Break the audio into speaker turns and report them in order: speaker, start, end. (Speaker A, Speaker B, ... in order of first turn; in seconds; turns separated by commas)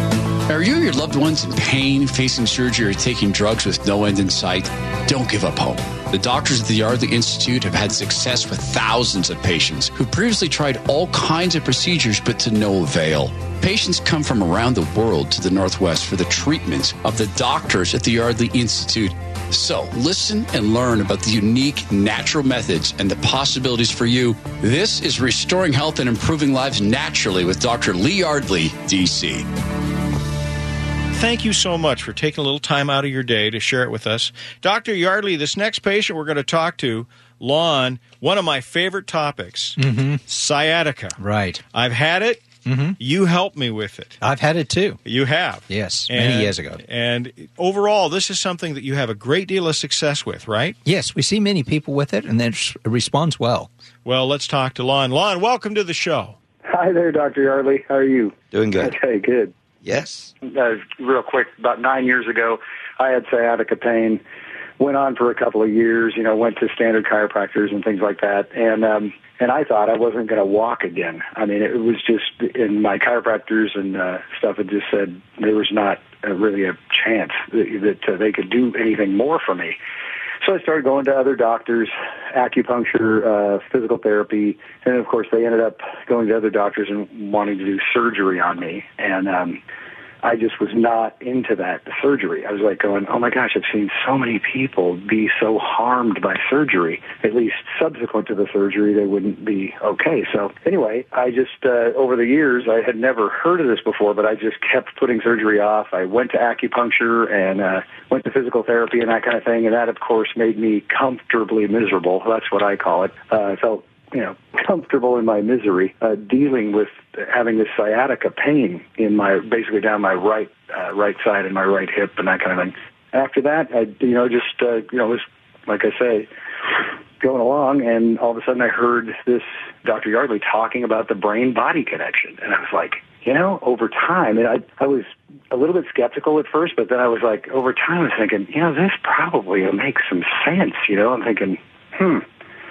Speaker A: 0.5-29.5, Speaker B: 31.1-41.2, Speaker C: 39.8-40.2, Speaker C: 41.2-41.6, Speaker B: 41.7-44.2, Speaker C: 42.6-42.9, Speaker C: 44.2-45.0, Speaker B: 45.0-50.8, Speaker C: 45.7-46.8, Speaker C: 50.9-53.7, Speaker B: 54.0-56.4, Speaker D: 56.7-59.5, Speaker C: 58.5-58.9, Speaker C: 59.8-60.3, Speaker D: 60.4-64.2, Speaker D: 64.8-79.8, Speaker D: 80.4-89.6, Speaker D: 90.2-126.3, Speaker D: 127.2-142.2